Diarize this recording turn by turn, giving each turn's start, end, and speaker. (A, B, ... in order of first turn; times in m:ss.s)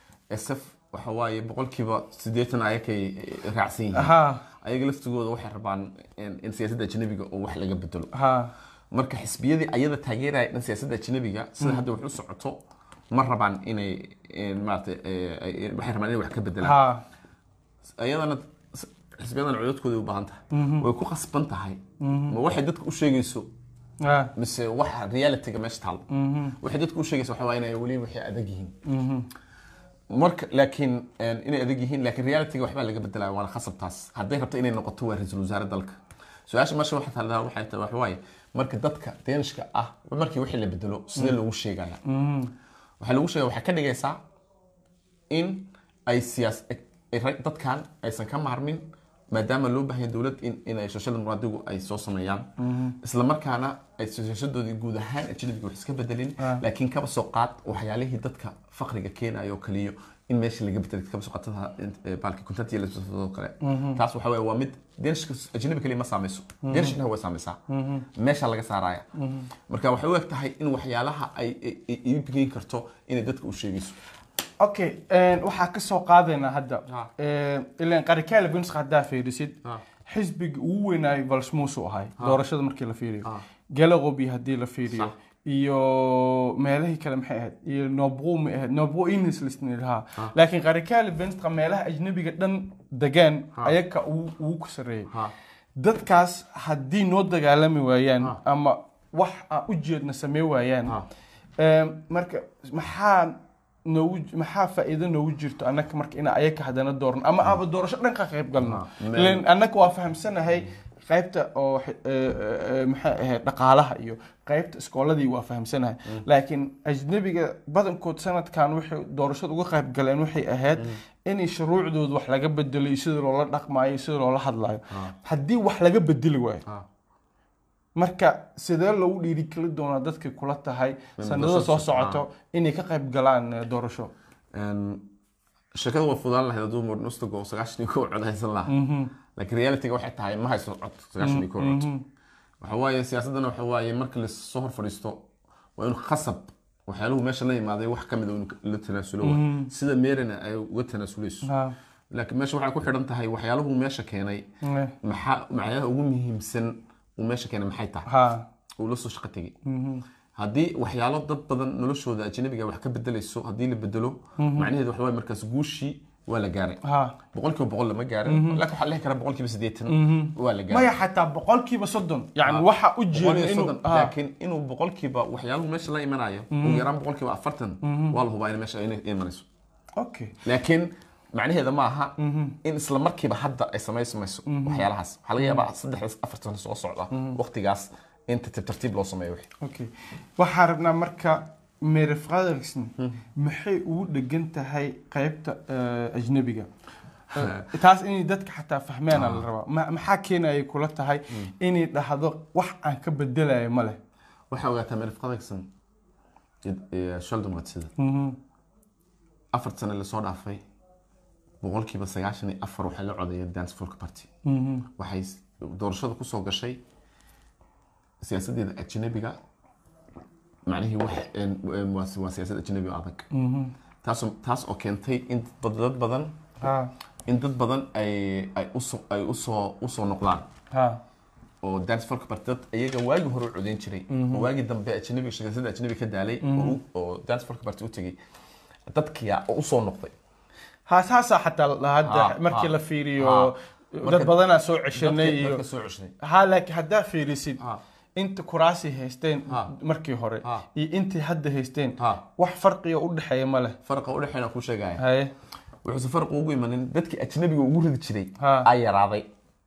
0:00.3-0:08.1 A
0:03.9-0:04.4 B
0:08.1-0:08.5 B
0:08.9-0:12.6 A
0:13.1-0:16.8 A
0:16.6-0:17.0 B
0:18.0-0:23.5 A
0:20.5-0:20.9 B
0:22.0-0:22.4 B
0:24.0-0:24.3 B
0:24.4-0:26.1 A
0:26.1-0:26.6 B
0:26.6-0:28.8 A
0:28.8-0:29.3 B
0:30.1-0:42.0 A
0:42.0-0:42.5 B
0:43.0-0:44.2 A
0:45.3-0:52.5 A
0:52.6-0:53.0 B
0:53.0-1:07.6 A
1:03.6-1:04.0 B
1:06.6-1:07.0 B
1:07.7-1:08.1 B
1:08.1-1:09.0 A
1:09.1-1:09.5 B
1:09.7-1:14.0 A
1:14.6-1:35.1 B
1:35.8-1:41.0 B
1:41.6-2:06.6 B
1:48.6-1:49.4 A
2:08.0-2:14.1 B
2:11.2-2:12.2 A
2:14.5-2:15.0 A
2:15.7-2:18.8 A
2:18.7-2:19.1 B
2:19.4-2:21.9 A
2:21.2-2:22.0 B
2:22.6-2:25.2 A
2:25.8-2:31.5 A
2:29.2-2:29.7 B
2:31.4-2:31.7 B
2:32.1-2:34.4 A
2:34.6-2:34.9 B
2:35.0-2:38.1 A
2:38.1-2:38.4 B
2:38.8-2:39.5 A
2:39.6-2:40.0 B
2:40.4-2:50.9 A
2:44.4-2:44.7 B
2:46.8-2:47.2 B
2:48.3-2:48.6 B
2:49.9-2:54.1 B
2:52.4-2:59.5 A
2:56.5-2:56.9 B
2:57.8-2:58.2 B
3:00.0-3:00.4 B
3:00.4-3:09.5 A
3:02.2-3:02.6 B
3:04.5-3:04.9 B
3:07.1-3:07.4 B
3:09.6-3:16.7 B
3:17.3-3:24.0 B
3:17.4-3:17.6 A
3:19.1-3:19.4 A
3:24.5-3:25.7 A
3:26.6-3:27.9 A
3:28.0-3:28.4 B
3:29.5-3:30.6 A
3:31.6-3:34.3 A
3:34.4-3:34.9 B
3:35.0-3:36.8 A
3:38.2-3:39.4 A
3:40.6-3:43.3 A
3:43.3-3:43.7 B
3:44.0-3:46.4 A
3:46.6-3:46.9 B
3:47.3-3:50.5 A
3:50.7-3:51.0 B
3:51.6-3:58.2 A
3:54.1-3:54.5 B
3:56.4-3:56.8 B
3:58.9-4:00.1 A
4:00.9-4:05.6 B
4:02.0-4:03.5 A
4:04.0-4:06.1 A
4:06.2-4:07.6 B
4:08.2-4:13.8 B
4:12.0-4:12.2 A
4:13.8-4:15.0 A
4:15.0-4:15.3 B
4:15.8-4:19.3 A
4:18.4-4:18.7 B